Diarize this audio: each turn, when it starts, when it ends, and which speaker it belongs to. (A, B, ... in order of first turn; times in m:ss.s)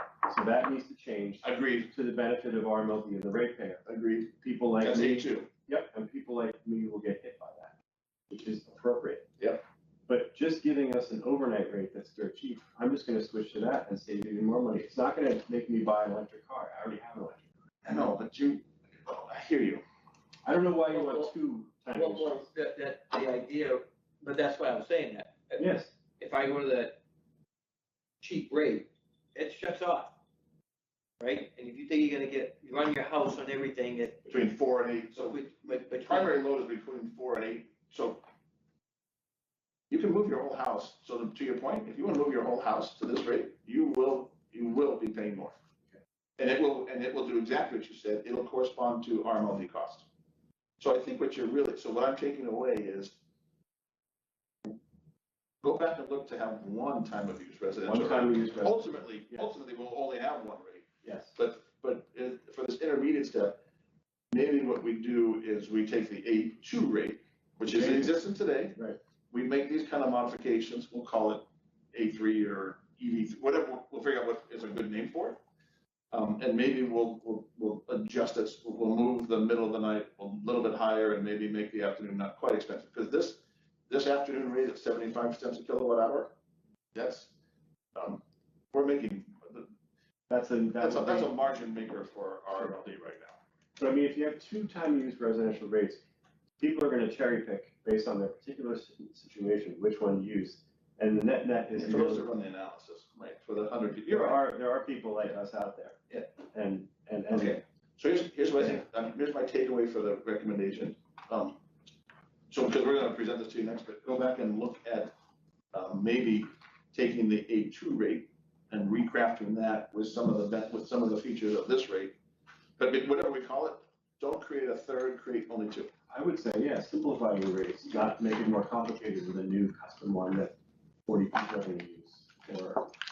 0:00.2-0:03.8 A
0:01.4-0:01.9 B
0:03.8-0:05.5 B
0:04.4-0:07.8 A
0:08.3-0:09.3 A
0:10.1-0:17.5 A
0:17.8-0:19.8 B
0:20.4-0:22.5 A
0:20.9-0:21.3 C
0:22.0-0:25.6 C
0:25.6-0:25.9 A
0:26.2-0:27.0 C
0:28.2-0:30.2 C
0:31.2-0:34.3 C
0:34.3-0:38.2 B
0:35.1-0:36.4 C
0:39.9-0:45.5 B
0:46.4-0:50.1 B
0:50.8-0:53.2 B
0:55.6-1:03.6 B
0:57.9-0:59.5 A
1:01.0-1:01.4 A
1:04.3-1:08.8 B
1:07.7-1:08.1 A
1:09.3-1:15.4 B
1:16.1-1:26.4 B
1:26.9-1:27.3 B
1:28.0-1:29.7 B
1:30.3-1:31.4 A
1:30.8-1:33.4 B
1:33.8-1:36.0 A
1:36.6-1:42.3 A
1:41.8-1:44.4 B
1:44.1-1:46.0 A
1:46.5-1:47.6 A
1:47.3-1:51.6 B
1:52.5-1:55.1 B
1:55.7-2:02.2 B
2:02.8-2:05.9 B
2:06.1-2:12.9 A